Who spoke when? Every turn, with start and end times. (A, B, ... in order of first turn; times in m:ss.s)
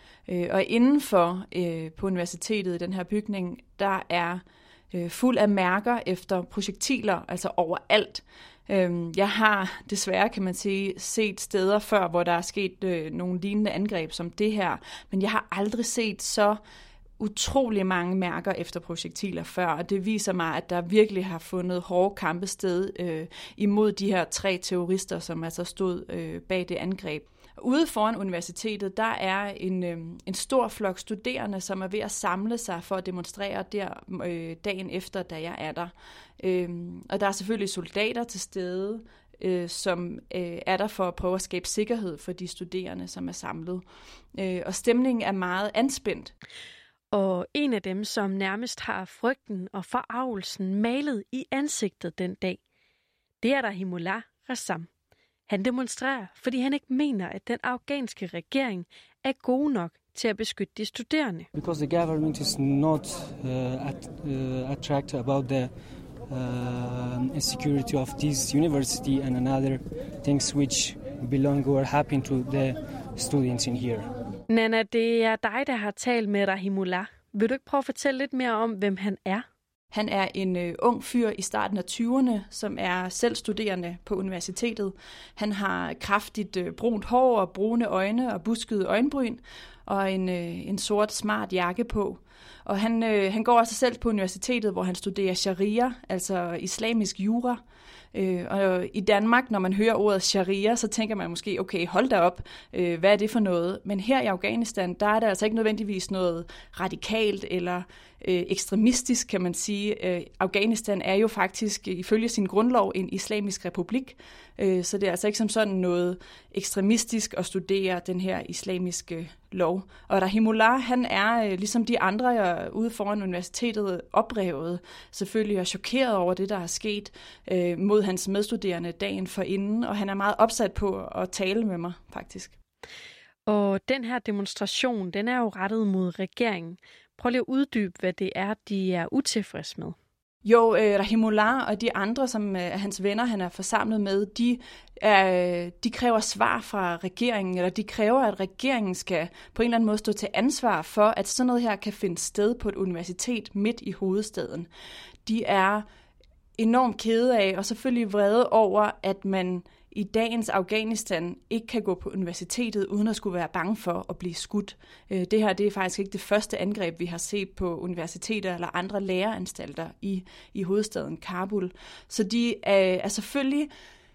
0:00.3-0:16.6 A
0:17.2-0:43.8 A
0:44.3-0:46.3 A
0:47.1-0:52.6 B
0:53.4-0:54.9 B
0:55.5-1:01.5 B
1:01.6-1:05.7 C
1:06.3-1:14.0 C
1:14.5-1:19.4 B
1:19.9-1:37.6 A
1:38.1-2:12.6 A
2:13.5-2:20.0 B
2:20.4-2:34.7 A
2:35.3-2:35.8 A
2:36.6-2:53.7 A